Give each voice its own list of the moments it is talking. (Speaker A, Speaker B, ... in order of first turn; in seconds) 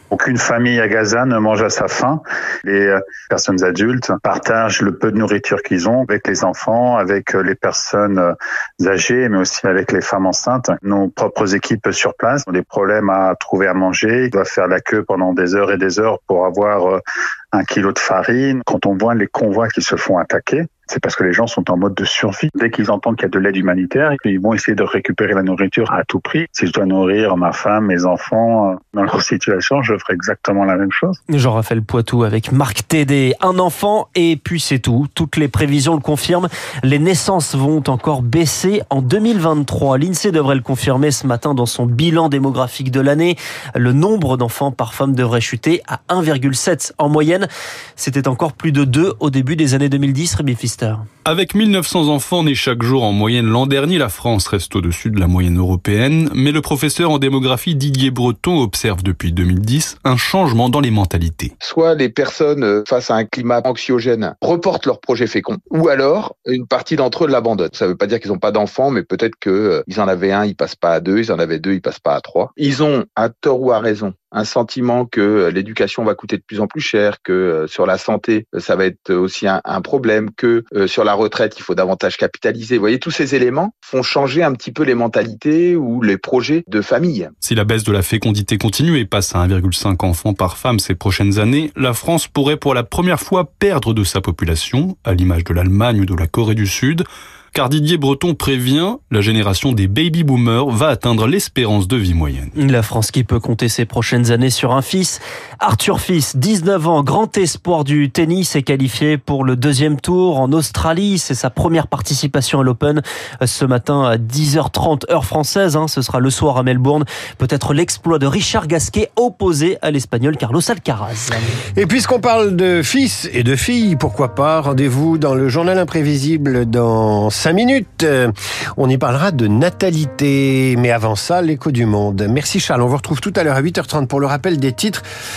Speaker A: 0.1-17.0, 17.5-31.2
Speaker B: 31.3-47.5, 48.0-51.0, 102.6-121.6
Speaker C: 51.2-61.5, 87.4-102.5
Speaker D: 61.6-87.3
Speaker E: 121.8-135.0